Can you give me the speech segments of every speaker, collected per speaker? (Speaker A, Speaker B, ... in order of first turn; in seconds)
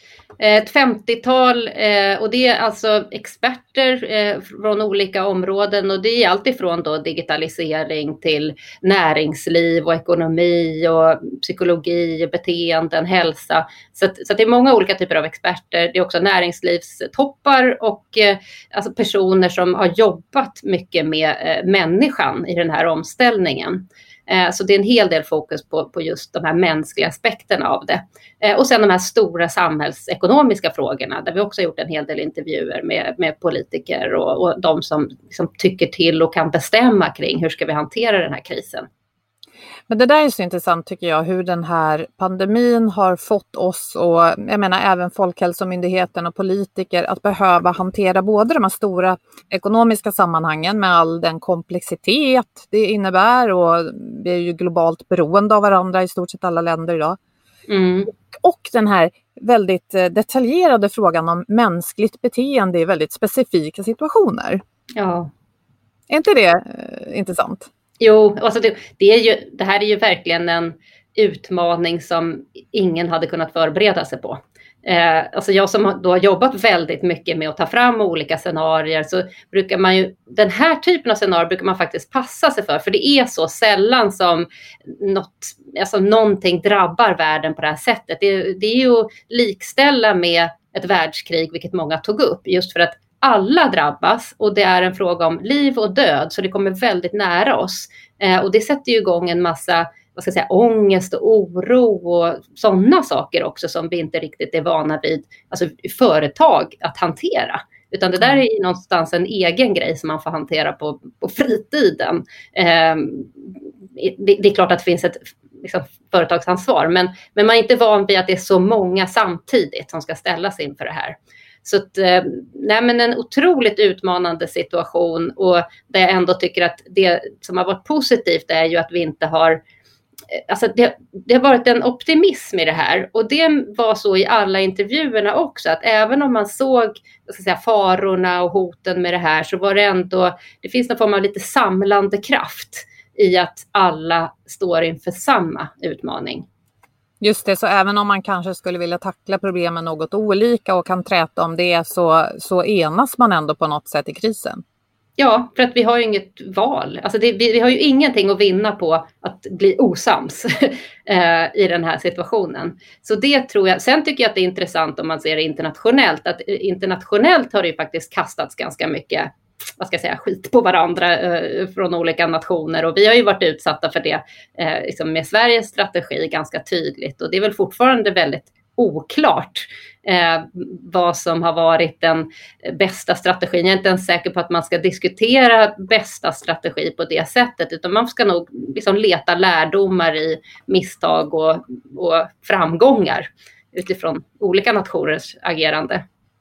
Speaker A: 0.4-38.9, 57.7-58.1, 65.0-65.3, 68.0-84.5, 85.0-129.6, 130.3-146.4, 155.2-196.0
Speaker B: 39.9-57.2, 58.1-64.6, 66.1-67.7, 147.2-154.6